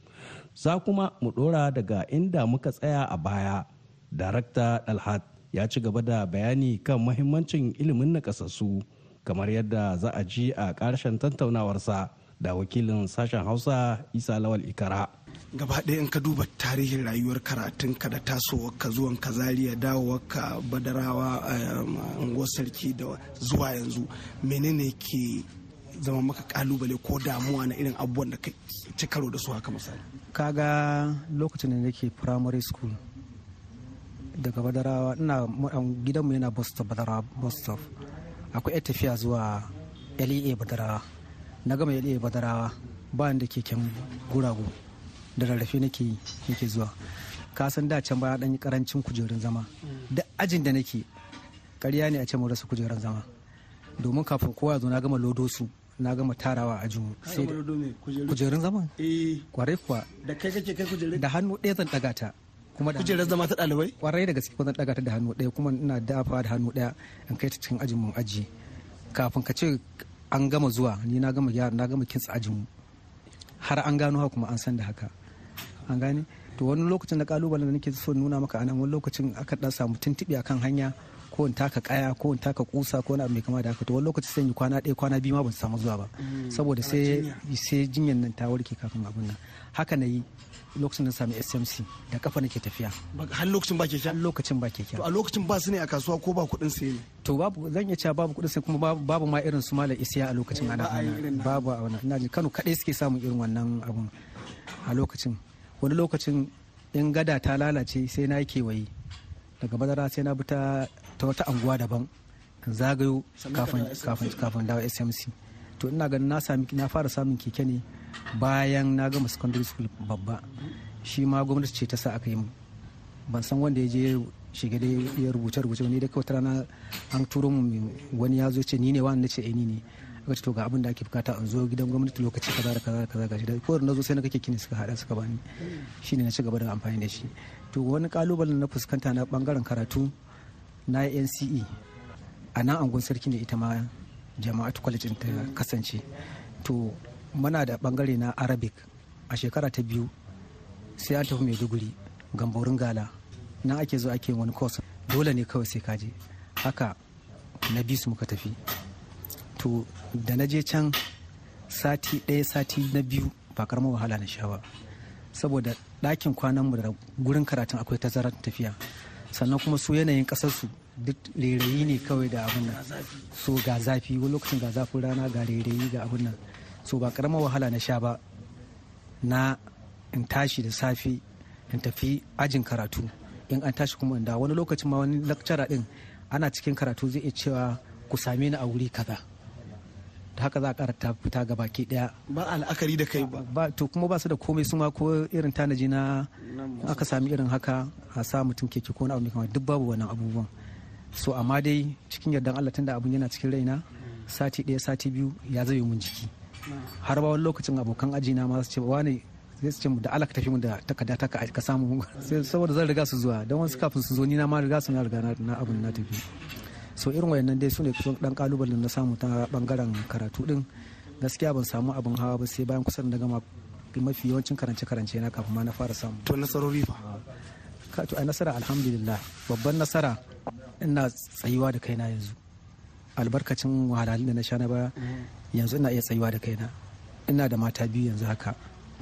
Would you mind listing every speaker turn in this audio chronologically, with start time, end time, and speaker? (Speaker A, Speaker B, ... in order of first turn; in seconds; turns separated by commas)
Speaker A: 0.6-15.1, Speaker B: 15.5-30.0, Speaker C: 30.3-33.0, Speaker C: 34.4-37.9, Speaker C: 38.5-41.0, Speaker C: 41.6-44.7, Speaker C: 45.4-46.9, Speaker C: 47.5-51.1, Speaker C: 51.8-53.3, Speaker C: 54.0-57.6, Speaker B: 57.2-58.4, Speaker C: 58.3-58.9, Speaker B: 59.0-59.5, Speaker C: 59.5-60.1, Speaker B: 60.1-61.2, Speaker C: 61.1-63.3, Speaker B: 62.9-63.9, Speaker C: 64.0-68.5, Speaker C: 69.1-72.7, Speaker C: 73.6-75.1, Speaker C: 75.9-93.0, Speaker B: 86.3-87.4, Speaker B: 93.1-94.2, Speaker C: 94.0-95.0, Speaker B: 95.0-97.1, Speaker C: 97.2-104.1, Speaker B: 100.5-101.7, Speaker C: 104.8-108.9, Speaker C: 109.6-112.1, Speaker C: 112.6-120.4, Speaker B: 113.4-114.5, Speaker C: 121.0-122.5, Speaker C: 123.3-135.4, Speaker C: 136.0-140.1, Speaker C: 140.9-141.7, Speaker C: 142.5-146.1, Speaker C: 146.6-150.1, Speaker C: 151.0-153.1, Speaker C: 153.6-156.9, Speaker C: 157.7-158.6, Speaker C: 159.6-160.9, Speaker C: 161.7-164.6, Speaker C: 165.3-168.8, Speaker C: 169.3-172.8, Speaker B: 171.8-172.1, Speaker C: 173.3-178.2, Speaker C: 179.2-179.6, Speaker C: 180.1-189.2, Speaker C: 190.3-192.1, Speaker B: 192.3-193.4, Speaker C: 193.3-200.5, Speaker B: 196.4-197.3, Speaker C: 201.1-206.3, Speaker C: 207.0-216.2, Speaker C: 216.9-220.7, Speaker C: 221.2-226.3, Speaker B: 226.2-227.0, Speaker C: 227.9-230.2, Speaker C: 230.8-232.4, Speaker C: 233.2-234.9, Speaker C: 235.5-236.7, Speaker C: 237.3-238.6